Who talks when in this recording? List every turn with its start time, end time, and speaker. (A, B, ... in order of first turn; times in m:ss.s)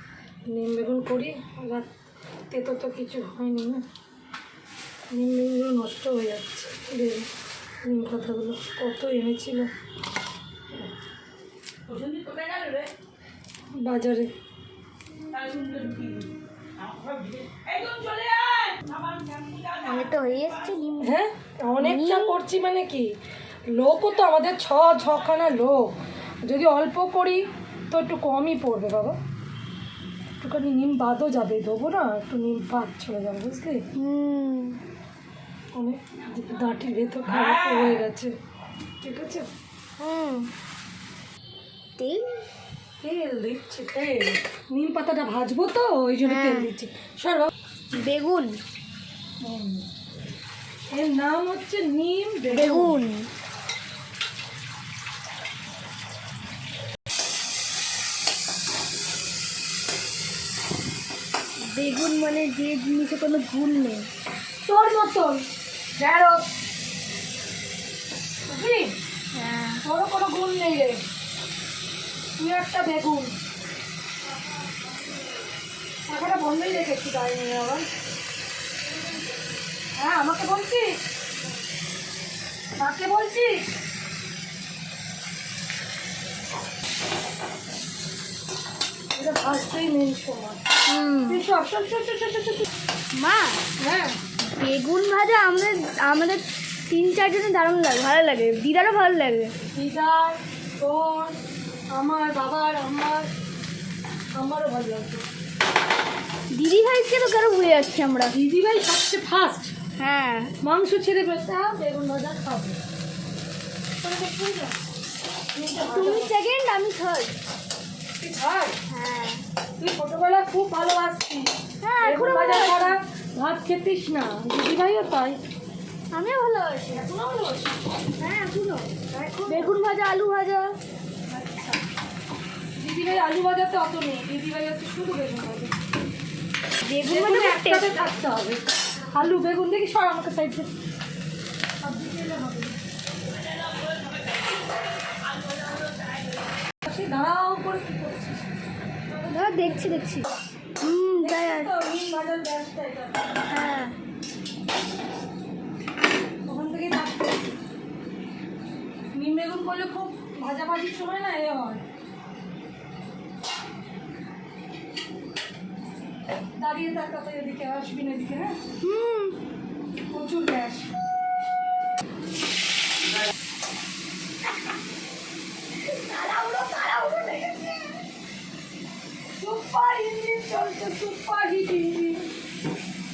0:00.5-0:01.9 A
0:02.5-0:03.8 A
0:05.1-0:07.3 A
0:07.8-0:09.7 A
0:12.1-0:12.8 B
0:13.7-0:14.3 A
0:15.6-0:16.1 B
0:19.7-0:21.2 B
0:21.0-0:23.1 A
0:21.8-0:22.4 B
0:23.7-0:29.2 A
0:30.4-0:33.8 A
0:33.9-0:34.8 B
0:35.7-0:38.3 A
0:39.0-0:39.5 A
0:40.0-0:40.5 B
0:42.0-0:42.4 B
0:43.0-0:47.5 A
0:46.2-0:46.7 B
0:47.9-0:48.6 B
0:49.4-0:49.9 A
0:50.9-0:53.0 A
0:52.5-0:53.3 B
1:01.7-1:04.1 B
1:04.6-1:05.4 A
1:06.0-1:06.5 A
1:08.5-1:08.9 A
1:09.3-1:09.8 B
1:09.8-1:11.0 A
1:12.4-1:13.3 A
1:16.1-1:17.9 A
1:19.9-1:21.0 A
1:22.8-1:23.7 A
1:29.1-1:30.6 A
1:30.8-1:31.4 B
1:31.3-1:32.7 A
1:33.1-1:33.6 B
1:33.8-1:34.2 A
1:34.5-1:39.5 B
1:39.7-1:41.4 A
1:41.9-1:43.3 A
1:44.4-1:45.2 A
1:46.5-1:48.4 B
1:48.3-1:49.7 A
1:50.0-1:50.5 B
1:50.6-1:52.8 A
1:54.0-1:54.8 A
1:55.5-1:56.3 A
1:55.8-1:57.4 B
1:58.2-1:58.7 A
1:58.9-1:59.4 B
1:59.8-2:01.5 A
2:01.8-2:03.0 B
2:02.0-2:05.4 A
2:06.1-2:07.1 B
2:06.9-2:07.7 A
2:08.2-2:08.9 B
2:09.0-2:09.8 A
2:09.5-2:10.8 B
2:11.3-2:11.8 A
2:12.8-2:15.7 A
2:16.8-2:18.1 B
2:17.1-2:20.7 A
2:21.8-2:22.8 A
2:26.8-2:28.5 A
2:29.1-2:30.2 A
2:29.3-2:30.3 B
2:30.8-2:31.7 B
2:31.2-2:33.4 A
2:33.4-2:34.0 B
2:36.4-2:37.3 A
2:39.1-2:41.8 A
2:46.6-2:48.6 A
2:48.8-2:49.4 B
2:50.1-2:50.9 A
2:55.9-2:58.0 B
2:59.4-3:02.3 A